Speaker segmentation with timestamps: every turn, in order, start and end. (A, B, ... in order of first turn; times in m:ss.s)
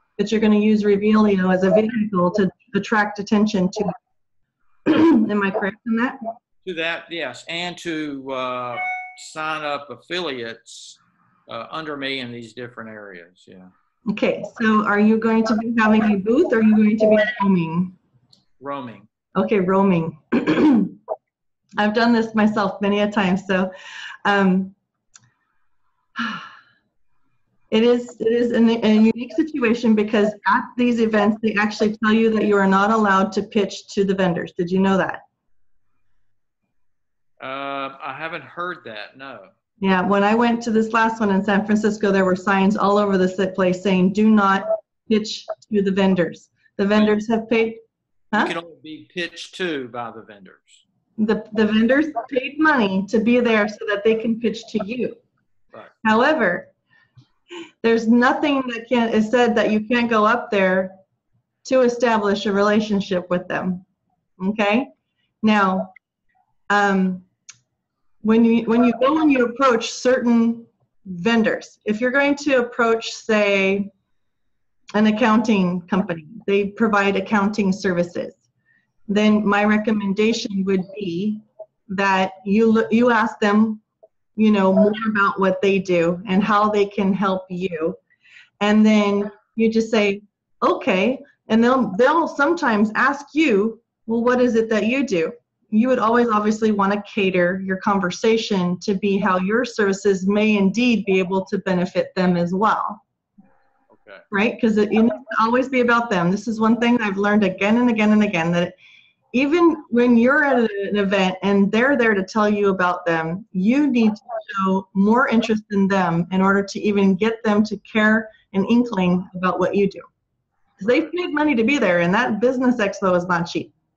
0:00.2-0:03.9 A
0:04.8-0:06.2 A
0:06.6-0:13.7 B
0:14.1-0:18.0 A
0:18.6-0:19.1 B
0:19.4-0:21.0 A
0:21.8-0:23.7 A
0:24.2-0:24.8 A
0:26.2-0:26.4 A
0:27.7-0:35.2 A
0:37.4-0:39.5 B
0:39.8-0:47.8 A
0:48.4-0:50.8 B
0:51.2-0:55.2 A
0:56.0-0:56.7 A
0:57.8-1:00.9 A
1:01.6-1:03.8 A
1:04.4-1:04.9 A
1:05.4-1:05.9 A
1:06.7-1:07.2 A
1:08.2-1:13.9 A
1:15.0-1:18.4 A
1:19.1-1:23.8 A
1:24.4-1:28.0 A
1:28.6-1:43.0 A
1:43.9-1:44.2 B
1:44.3-1:48.7 A
1:49.3-2:00.0 A
2:00.8-2:03.7 A